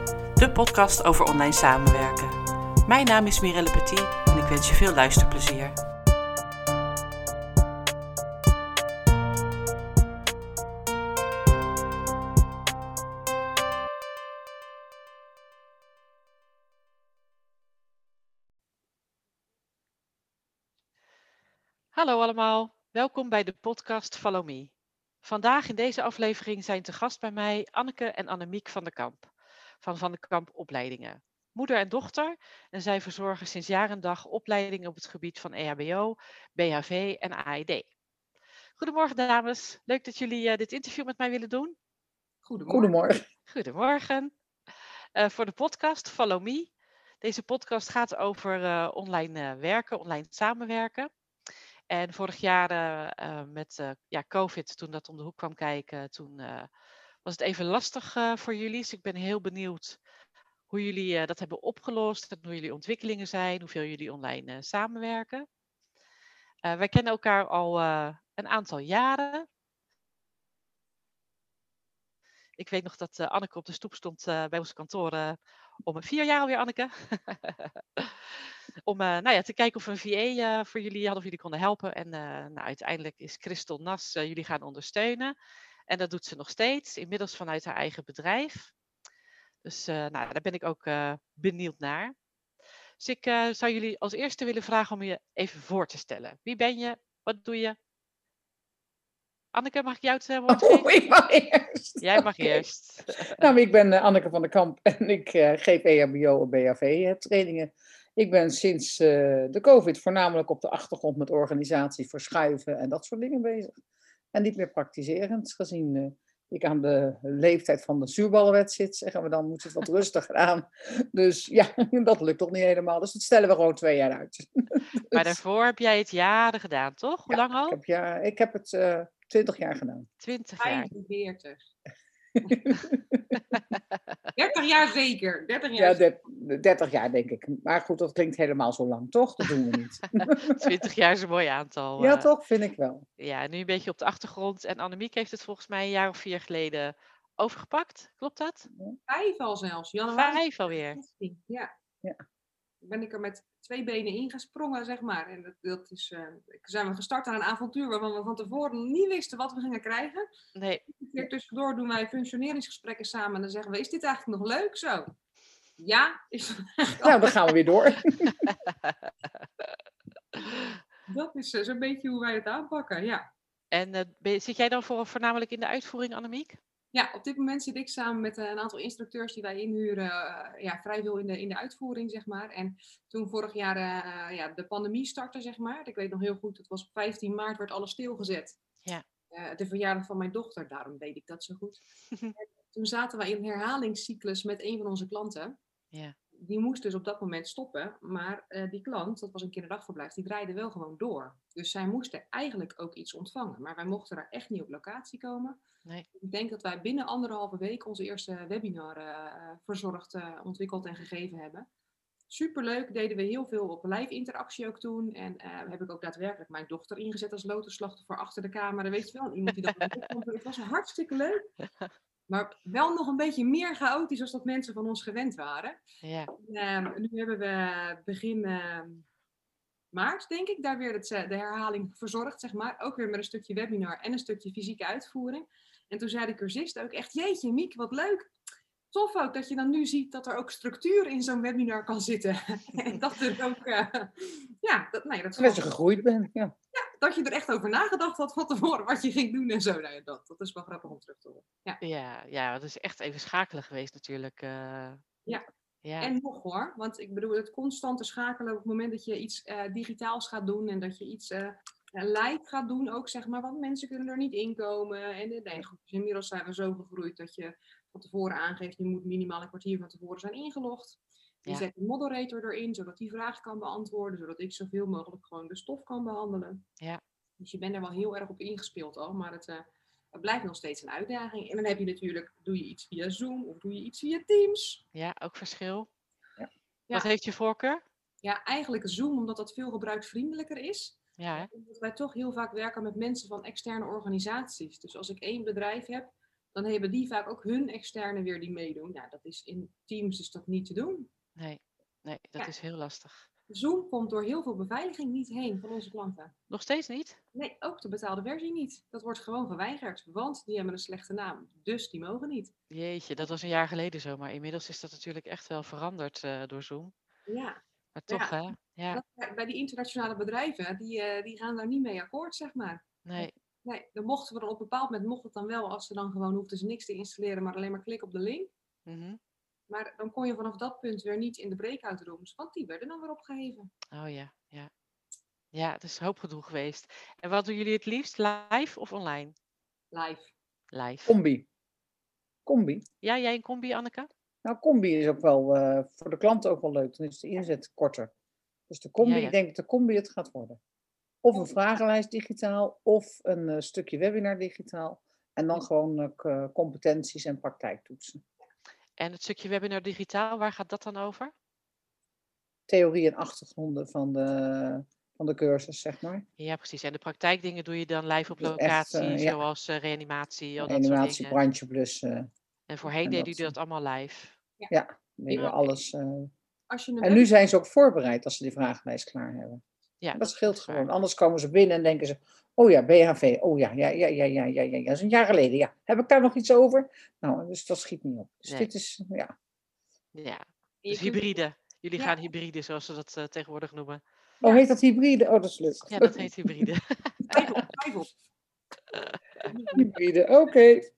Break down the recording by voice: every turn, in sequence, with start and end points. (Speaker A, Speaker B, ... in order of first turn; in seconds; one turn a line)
Speaker A: 0.3-5.7
Speaker A: 21.9-24.7
Speaker A: 25.2-29.3
Speaker A: 29.8-37.9
Speaker A: 38.8-41.8
Speaker B: 42.4-42.9
Speaker C: 42.7-43.2
Speaker A: 43.5-46.7
Speaker A: 47.2-51.1
Speaker A: 51.9-56.7
Speaker A: 57.2-60.0
Speaker A: 60.7-65.5
Speaker A: 66.6-69.5
Speaker A: 72.6-85.3
Speaker A: 85.9-88.7
Speaker A: 89.6-92.1
Speaker A: 93.0-97.8
Speaker A: 99.5-100.9
Speaker C: 100.5-102.6
Speaker A: 102.0-103.5
Speaker C: 103.2-113.8
Speaker C: 114.3-125.4
Speaker A: 125.1-127.8
Speaker C: 127.3-130.1
Speaker A: 130.2-130.9
Speaker B: 130.6-131.6
Speaker C: 132.4-133.4
Speaker A: 133.5-134.1
Speaker B: 134.3-136.0
Speaker C: 135.8-140.8
Speaker A: 140.4-142.3
Speaker C: 142.0-143.1
Speaker A: 143.2-148.7
Speaker B: 149.1-151.7
Speaker A: 150.1-151.0
Speaker B: 152.8-160.3
Speaker A: 160.5-160.8
Speaker B: 160.8-165.1
Speaker B: 165.8-167.2
Speaker C: 167.0-168.5
Speaker A: 168.5-169.7
Speaker A: 170.5-170.8
Speaker B: 171.1-173.2
Speaker A: 173.7-176.6
Speaker B: 176.9-188.6
Speaker B: 189.3-191.8
Speaker B: 192.3-195.6
Speaker B: 196.4-205.6
Speaker B: 206.2-211.7
Speaker B: 212.3-221.5
Speaker B: 222.3-225.8
Speaker A: 226.0-226.3
Speaker B: 226.3-229.0
Speaker B: 229.9-238.3
Speaker B: 238.9-245.7
Speaker C: 245.4-246.5
Speaker B: 246.7-251.8
Speaker A: 251.8-255.0
Speaker A: 255.8-256.1
Speaker B: 256.0-276.6
Speaker B: 277.4-284.8
Speaker A: 284.9-285.9
Speaker A: 286.9-287.8
Speaker B: 288.2-301.1
Speaker A: 291.2-291.5
Speaker A: 301.4-303.3
Speaker B: 303.5-306.3
Speaker A: 306.5-307.2
Speaker B: 307.3-312.5
Speaker A: 312.7-316.9
Speaker B: 317.3-328.5
Speaker A: 317.9-319.0
Speaker A: 323.0-323.3
Speaker A: 328.9-329.2
Speaker B: 329.7-333.7
Speaker A: 333.9-334.7
Speaker A: 335.5-339.3
Speaker B: 339.9-340.3
Speaker A: 340.7-341.1
Speaker C: 341.1-341.5
Speaker C: 342.4-342.8
Speaker A: 343.0-344.1
Speaker C: 344.4-348.1
Speaker C: 348.7-350.6
Speaker A: 349.0-349.4
Speaker C: 351.2-358.2
Speaker A: 359.0-361.3
Speaker C: 362.7-366.2
Speaker A: 366.4-371.4
Speaker C: 368.4-369.4
Speaker C: 370.6-372.3
Speaker A: 372.7-374.4
Speaker C: 373.0-373.5
Speaker C: 374.7-376.3
Speaker B: 375.3-375.5
Speaker A: 375.3-375.6
Speaker B: 376.7-377.3
Speaker C: 377.0-379.6
Speaker A: 380.0-380.9
Speaker C: 380.1-389.3
Speaker A: 390.1-394.0
Speaker B: 390.8-391.3
Speaker C: 394.4-396.7
Speaker A: 395.9-397.4
Speaker B: 397.3-398.1
Speaker B: 399.5-399.9
Speaker C: 399.7-400.9